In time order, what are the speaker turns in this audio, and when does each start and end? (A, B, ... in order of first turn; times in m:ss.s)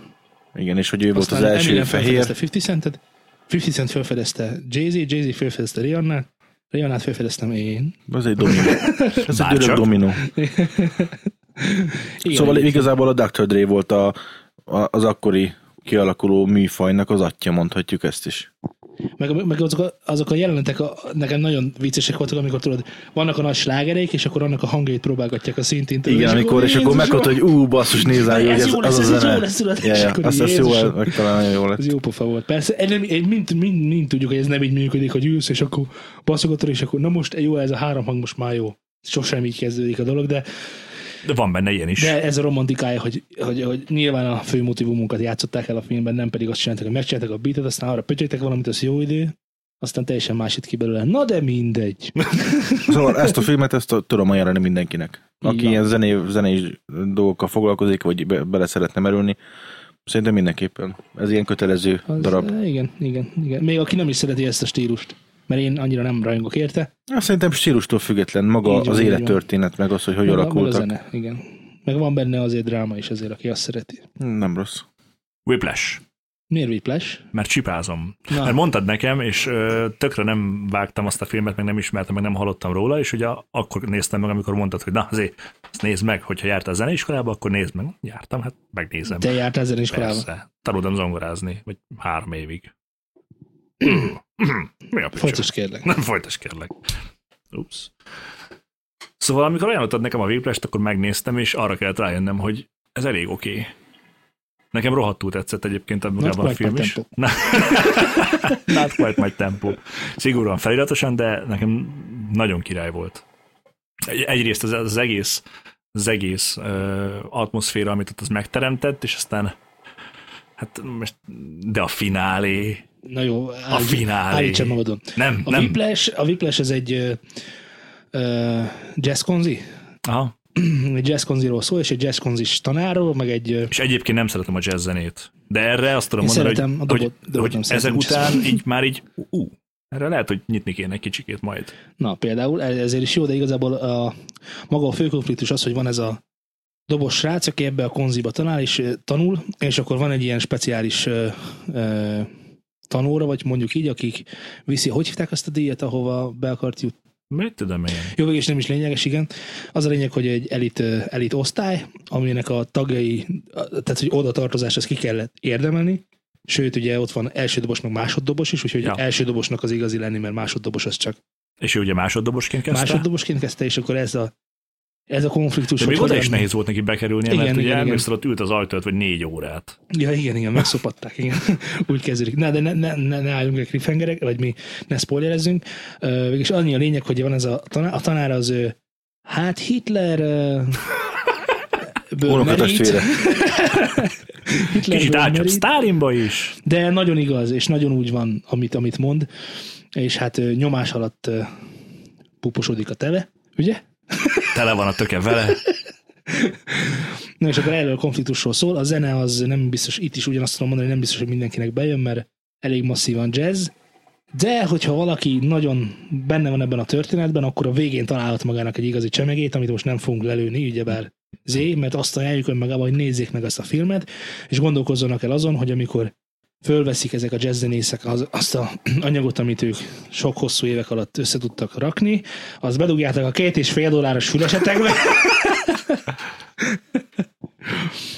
0:00.5-0:02.3 A
0:01.1-0:09.2 B
0:08.1-0:10.2 A
0:09.3-0:09.8 C
0:10.2-0:12.9 B
0:12.3-0:18.5 A
0:19.2-0:40.4 B
0:26.0-0:31.9 A
0:41.2-0:42.1 C
0:42.0-0:53.4 B
0:52.9-0:59.4 A
0:55.4-0:55.8 B
1:00.0-1:02.5 A
1:02.1-1:06.9 B
1:07.1-1:10.9 A
1:08.6-1:09.4 B
1:10.2-1:14.0 B
1:14.2-1:14.8 A
1:15.4-1:16.0 C
1:16.5-1:17.2 B
1:17.3-1:29.3 C
1:18.3-1:18.6 B
1:29.1-1:30.2 B
1:29.9-1:32.7 C
1:33.8-1:36.7 C
1:33.8-1:34.1 B
1:35.2-1:35.9 B
1:37.5-1:37.9 C
1:39.2-1:43.7 C
1:44.7-1:53.2 C
1:46.2-1:47.1 B
1:54.0-1:55.4 C
1:55.9-1:59.5 C
2:00.6-2:02.8 C
2:03.0-2:07.2 B
2:03.7-2:05.8 C
2:08.1-2:09.6 B
2:10.0-2:10.3 C
2:10.6-2:13.7 B
2:13.7-2:21.7 C
2:16.2-2:18.6 B
2:22.0-2:24.1 B
2:24.7-2:26.2 B
2:26.9-2:32.3 B
2:32.9-2:36.9 B
2:37.3-2:38.1 C
2:38.1-2:51.2 B
2:51.6-2:53.0 C
2:52.7-2:54.3 B
2:55.1-2:56.5 B
2:55.8-2:59.8 C
2:57.2-2:58.0 B
2:59.9-3:08.8 B
3:09.3-3:10.9 B
3:12.1-3:15.6 B
3:12.2-3:13.1 A
3:14.8-3:16.5 C
3:16.6-3:19.3 B
3:19.9-3:21.5 B
3:22.4-3:24.5 B
3:24.5-3:25.6 C
3:26.3-3:33.7 B
3:34.3-3:56.0 B